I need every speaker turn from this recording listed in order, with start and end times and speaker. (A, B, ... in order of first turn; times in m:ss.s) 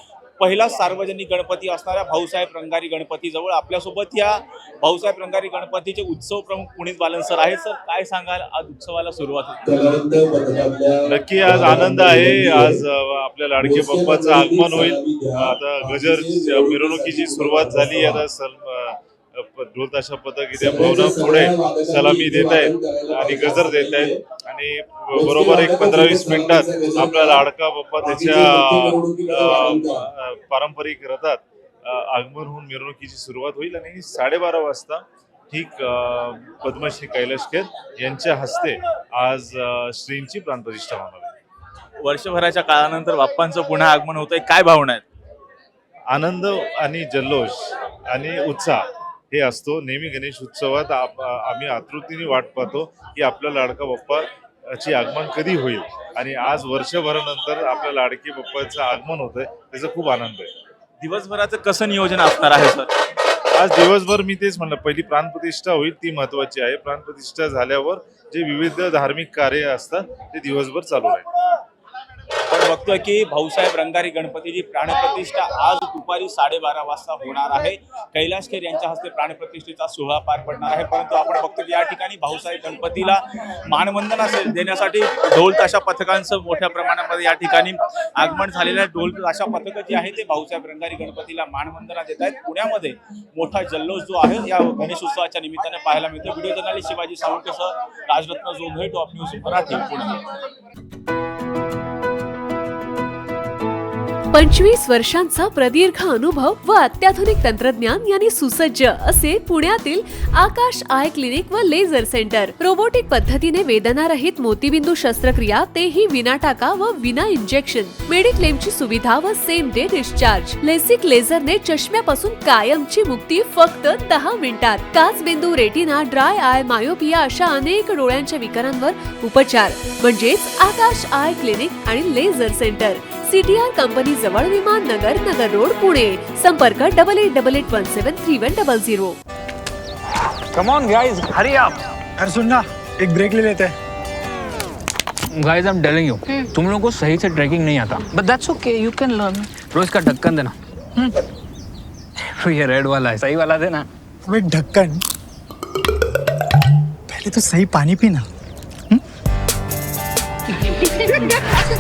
0:00.4-0:12.8 A
0:11.1-0:41.3 B
0:13.6-0:18.2 A
0:20.5-0:24.2 A
0:25.2-0:27.4 A
0:28.0-0:30.1 A
0:42.0-0:45.0 A
0:46.1-1:00.5 B
1:01.0-1:02.9 A
1:03.6-1:11.2 B
1:12.5-1:40.3 A
1:44.3-2:19.2 C
2:20.5-2:21.8 D
2:22.2-2:23.3 E
2:23.3-2:23.8 D
2:25.4-2:31.1 D
2:32.3-2:33.9 D
2:34.3-2:35.0 E
2:37.1-2:38.3 E